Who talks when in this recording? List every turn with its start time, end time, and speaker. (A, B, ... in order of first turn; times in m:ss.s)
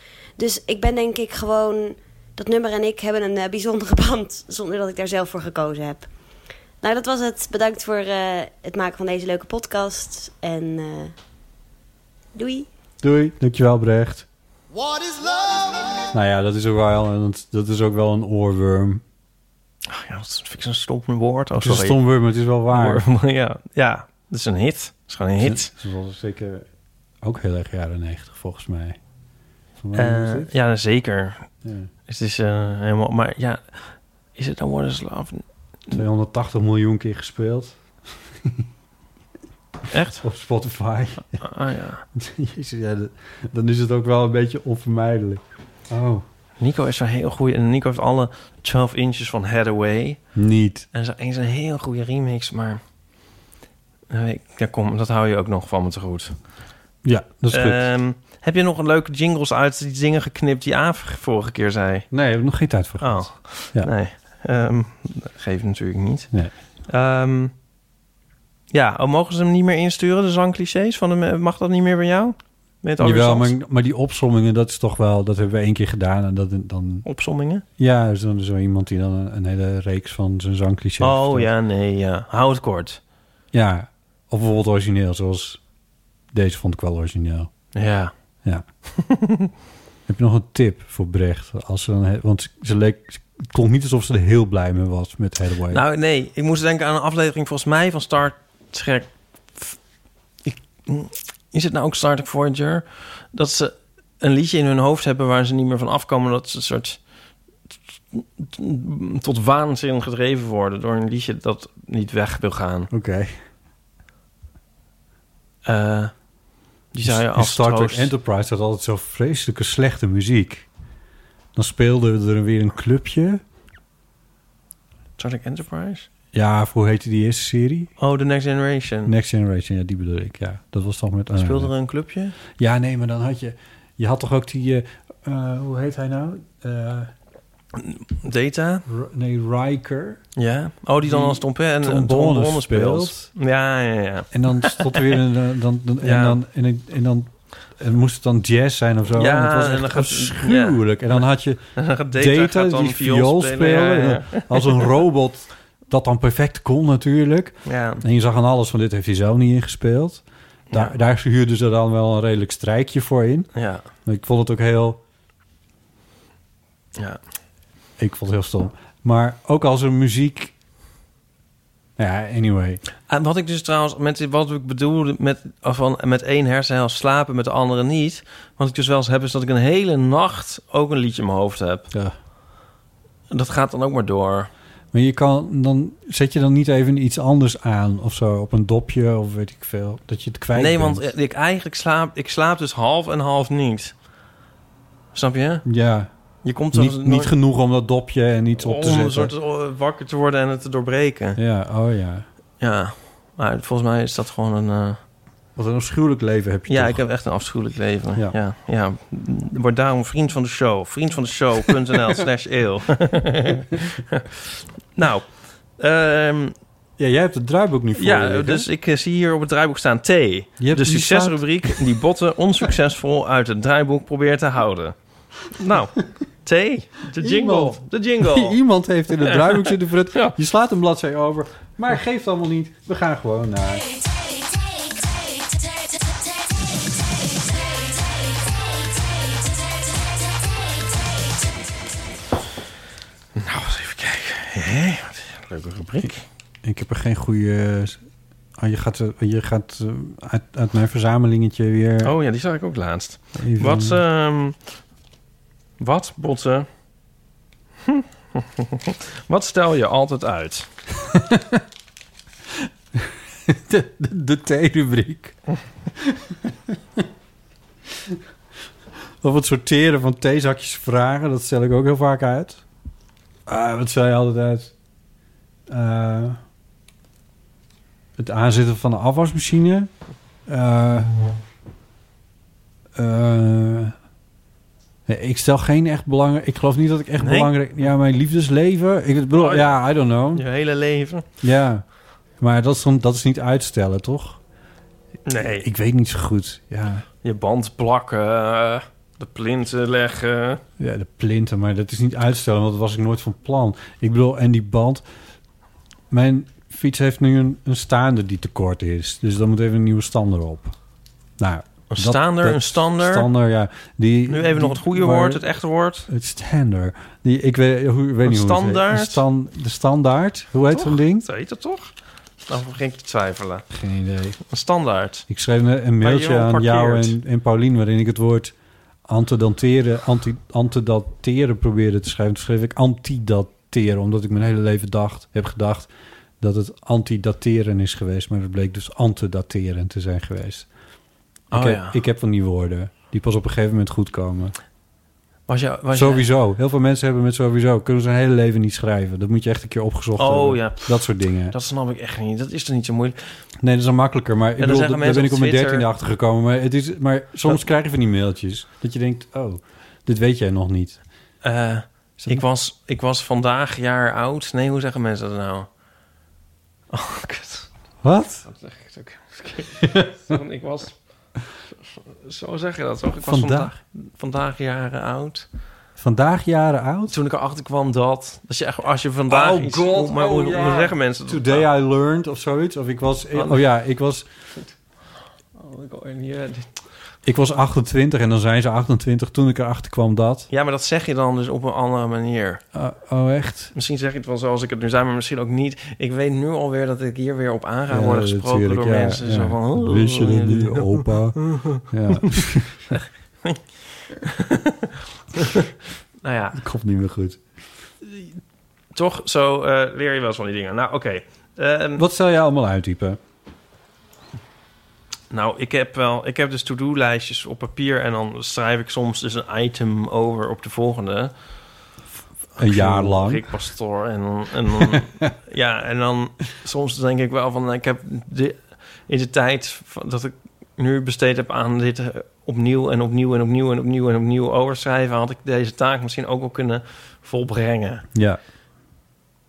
0:00.4-0:06.1 A
0:06.8-0:11.1 A
0:12.3-0:12.7 A
0:13.0-0:14.2 B
0:16.1-0:19.0 B
0:19.9-0:22.0 C
0:21.6-0:23.0 B
0:22.7-0:25.7 C
0:25.4-0:26.6 B
0:27.2-0:29.0 B
0:29.8-0:30.5 B
0:29.9-0:31.5 C
0:31.6-0:31.9 B
0:32.1-0:36.0 C
0:35.9-0:37.8 B
0:39.9-0:40.2 C
0:40.2-0:41.3 B
0:41.4-0:42.0 C
0:42.1-0:46.2 B
0:46.6-0:50.2 C
0:50.3-0:50.8 B
0:50.9-0:52.8 C
0:54.1-0:56.3 C
0:57.0-0:57.9 B
0:57.5-1:02.1 C
1:02.1-1:03.9 B
1:03.0-1:06.3 C
1:06.9-1:07.5 C
1:08.7-1:13.5 C
1:13.0-1:17.0 B
1:17.0-1:17.6 C
1:17.8-1:21.5 B
1:21.0-1:23.0 C
1:23.5-1:25.6 B
1:26.3-1:27.5 B
1:27.7-1:28.1 C
1:29.0-1:29.5 C
1:30.1-1:35.8 B
1:35.7-1:39.8 C
1:40.4-1:47.0 C
1:48.1-1:52.9 C
1:52.9-1:53.3 B
1:55.6-1:56.1 C
1:56.9-1:58.1 C
1:57.0-2:00.7 B
2:01.5-2:03.4 B
2:05.2-2:06.1 C
2:06.3-2:07.9 B
2:08.0-2:09.1 C
2:09.0-2:11.7 B
2:11.3-2:12.4 C
2:12.6-2:17.1 B
2:17.8-2:18.8 C
2:18.9-2:20.2 B
2:20.4-2:25.2 C
2:21.0-2:23.2 B
2:24.3-2:43.5 B
2:26.0-2:26.4 C
2:29.1-2:31.2 C
2:31.8-2:35.0 C
2:37.6-2:38.0 C
2:43.5-2:43.8 C
2:44.0-2:45.0 B
2:48.0-2:50.5 B
2:52.0-2:52.8 B
2:53.1-3:01.9 C
3:03.3-3:04.5 C
3:04.9-3:11.1 B
3:10.5-3:13.9 C
3:15.1-3:15.6 C
3:15.6-3:16.1 B
3:16.4-3:17.3 C
3:16.7-3:19.3 B
3:18.6-3:21.4 C
3:21.4-3:22.2 B
3:22.6-3:25.0 C
3:25.6-3:27.0 B
3:26.7-3:36.5 C
3:37.0-3:38.7 B
3:38.0-3:44.9 C
3:40.6-3:41.8 B
3:45.4-3:48.6 C
3:47.2-3:53.9 B
3:49.2-3:50.3 C
4:03.4-4:06.2 C
4:06.6-4:08.0 B
4:08.6-4:12.1 B
4:12.0-4:14.6 C
4:13.4-4:14.0 B
4:15.8-4:16.7 C
4:17.8-4:20.7 C
4:21.1-4:21.6 B
4:23.0-4:25.4 B
4:26.0-4:27.0 B
4:29.2-4:32.6 B
4:33.5-4:34.7 B
4:35.7-4:36.4 B
4:38.2-4:39.9 B
4:40.5-4:41.1 B
4:43.0-4:43.9 B
4:45.1-4:50.4 B
4:47.2-4:47.5 C
4:49.3-4:49.8 C
4:50.3-4:51.2 C
4:51.4-4:51.8 B
4:52.4-4:54.4 B
4:55.2-4:55.6 C
4:55.4-4:57.0 B
4:57.2-5:00.6 C
5:00.8-5:05.0 B
5:06.1-5:10.8 B
5:11.4-5:15.4 B
5:11.9-5:13.3 C
5:14.3-5:16.1 C
5:16.1-5:21.2 B
5:18.2-5:19.2 C
5:20.7-5:21.9 C
5:22.4-5:23.6 C
5:23.7-5:24.4 B
5:24.5-5:25.2 C
5:25.3-5:28.5 B
5:26.0-5:27.2 C
5:29.1-5:40.7 B
5:41.5-5:42.0 C
5:41.5-5:44.5 B
5:45.5-5:46.2 C
5:45.9-5:51.5 B
5:50.2-5:53.4 C
5:53.6-6:01.0 B
5:54.6-5:55.8 C
6:01.4-6:05.7 C
6:06.9-6:07.7 C
6:08.0-6:08.4 B
6:08.4-6:11.0 C
6:09.8-6:10.3 B
6:12.2-6:15.5 C
6:13.2-6:13.7 B
6:16.0-6:17.2 B
6:17.1-6:21.6 C
6:19.3-6:24.3 B
6:23.3-6:23.6 C
6:25.6-6:26.7 C
6:27.2-6:30.5 B
6:30.5-6:32.6 C
6:32.7-6:33.7 B
6:33.7-6:41.8 C
6:37.9-6:42.9 B
6:42.9-6:43.6 C
6:44.2-6:45.7 C
6:46.2-6:46.6 C
6:46.5-6:47.4 B
6:48.0-6:48.3 C
6:48.9-6:52.0 C
6:52.0-6:53.2 B
6:55.3-7:01.3 C
7:02.6-7:18.0 C
7:02.6-7:03.4 B
7:18.1-7:18.4 B